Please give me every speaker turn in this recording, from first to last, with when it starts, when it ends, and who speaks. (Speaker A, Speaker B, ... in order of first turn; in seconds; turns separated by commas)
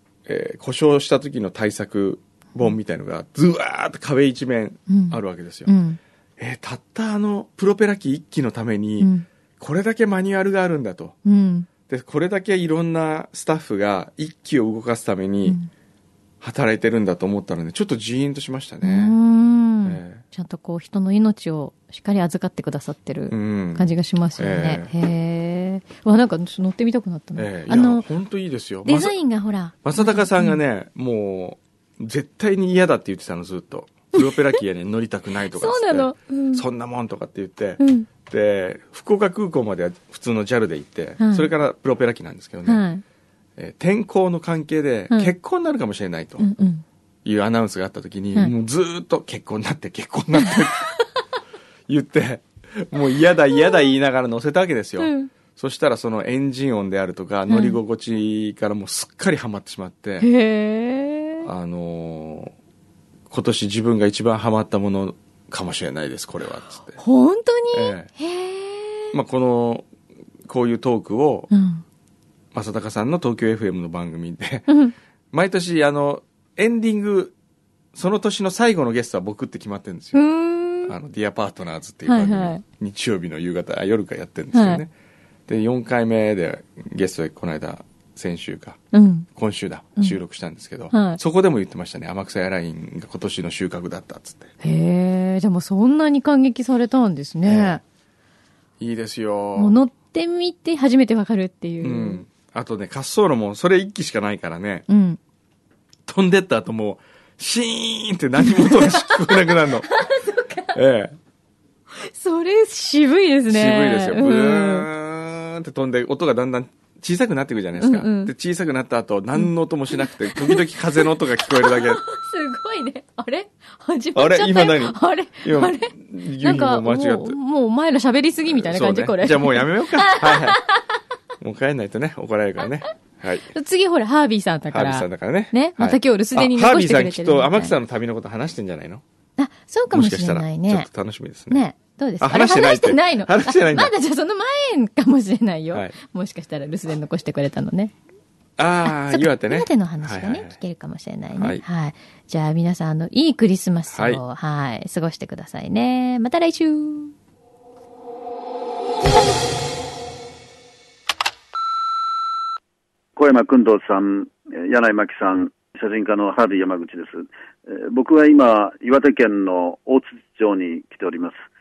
Speaker A: 0.2-5.7, Speaker B: 4.9-6.0, Speaker A: 6.4-11.2, Speaker B: 9.0-9.2, Speaker B: 11.2-11.7, Speaker A: 11.9-15.6, Speaker B: 15.4-15.7, Speaker A: 16.4-19.1, Speaker B: 18.8-28.1, Speaker A: 19.8-20.2, Speaker A: 23.3-23.9, Speaker A: 24.4-24.9, Speaker A: 27.4-29.1, Speaker B: 28.8-30.6, Speaker A: 29.8-42.8, Speaker B: 35.5-36.6, Speaker B: 37.8-38.1, Speaker B: 41.2-41.5, Speaker B: 42.6-43.0, Speaker A: 43.6-46.4, Speaker B: 46.4-46.8, Speaker A: 47.2-50.9, Speaker B: 50.4-50.6, Speaker A: 51.9-60.3, Speaker B: 53.5-53.8, Speaker B: 55.0-55.3, Speaker B: 57.5-57.8, Speaker B: 60.2-61.5, Speaker A: 61.4-62.5, Speaker A: 63.3-67.0, Speaker B: 67.0-69.1, Speaker A: 67.7-68.1, Speaker A: 69.1-69.9, Speaker A: 70.5-71.5, Speaker B: 71.5-71.8, Speaker A: 72.5-74.7, Speaker B: 74.7-74.9, Speaker A: 75.3-77.3, Speaker A: 77.9-80.2, Speaker B: 80.1-80.9, Speaker A: 80.8-84.9, Speaker B: 82.0-82.6, Speaker B: 84.5-84.8, Speaker A: 85.5-88.8, Speaker B: 88.9-89.3, Speaker A: 89.3-94.5, Speaker B: 90.9-91.2, Speaker B: 94.6-97.8, Speaker A: 97.4-97.8, Speaker A: 98.8-99.8, Speaker B: 99.5-102.2, Speaker A: 101.8-104.8, Speaker B: 104.9-105.2, Speaker A: 106.1-109.9, Speaker B: 108.4-110.7, Speaker A: 110.7-111.2, Speaker B: 111.9-114.9, Speaker A: 113.5-122.0, Speaker B: 117.8-118.3, Speaker B: 119.3-130.8, Speaker A: 124.1-127.3, Speaker A: 128.4-130.6, Speaker A: 131.4-133.5, Speaker B: 133.5-137.7, Speaker A: 134.7-139.0, Speaker B: 139.4-140.9, Speaker A: 139.9-141.6, Speaker B: 141.5-147.9, Speaker A: 142.2-143.9, Speaker A: 148.6-150.6, Speaker B: 148.8-157.1, Speaker A: 151.3-151.6, Speaker A: 153.9-154.2, Speaker C: 163.2-171.4